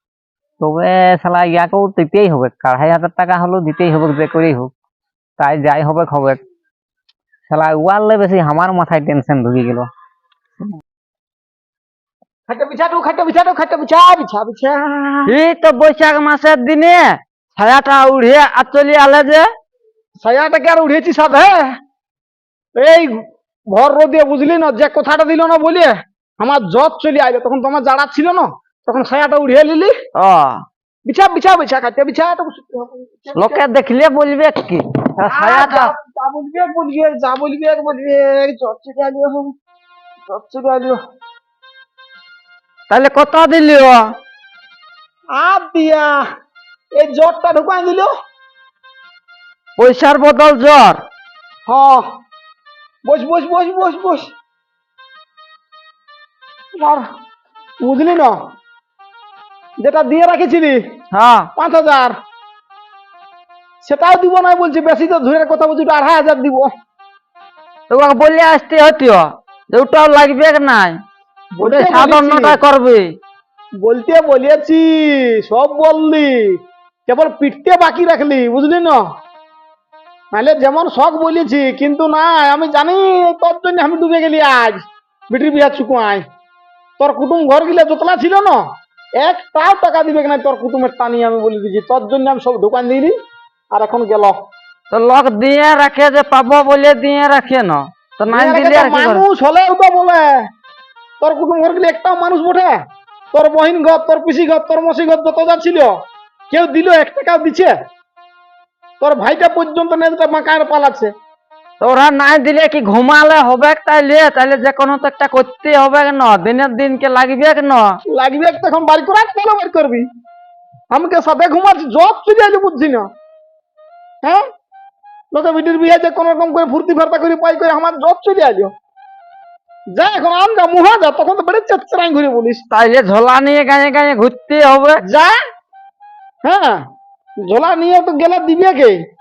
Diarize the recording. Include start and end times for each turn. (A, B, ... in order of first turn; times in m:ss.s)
0:00.6-0:04.7 A
0:05.4-0:06.4 A
0:07.5-0:09.9 A
0:12.5-0:15.3 B
0:15.3-0:19.4 C
0:20.2-0:21.7 B
0:22.8-0:23.1 B
0:23.7-0:29.9 B
0:30.2-0:30.6 C
0:31.0-0:33.6 B
0:33.4-0:35.9 C
0:35.3-0:39.5 B
0:40.3-0:41.0 B
0:42.9-0:44.1 C
0:45.3-0:46.2 B
0:46.9-0:48.1 B
0:49.8-0:51.0 C
0:51.7-0:52.0 B
0:53.0-0:54.3 B
0:56.7-0:57.0 B
0:57.8-0:58.4 B
0:59.8-1:00.8 B
1:01.1-1:01.5 C
1:01.6-1:02.1 B
1:03.8-1:06.7 B
1:07.9-1:11.0 C
1:11.5-1:12.6 B
1:11.6-1:13.1 C
1:13.8-1:19.0 B
1:20.3-1:26.2 B
1:27.0-1:28.6 B
1:29.2-1:33.1 B
1:33.7-1:34.4 B
1:34.9-1:39.2 C
1:38.3-1:40.5 B
1:41.2-1:42.8 B
1:43.3-1:46.0 B
1:46.5-1:47.7 B
1:49.0-1:51.1 B
1:51.8-1:58.0 C
1:58.1-2:00.1 B
2:00.9-2:03.1 B
2:05.3-2:08.7 B
2:09.9-2:12.6 B
2:12.7-2:15.0 C
2:15.0-2:15.4 B
2:16.4-2:16.8 B
2:17.4-2:19.0 B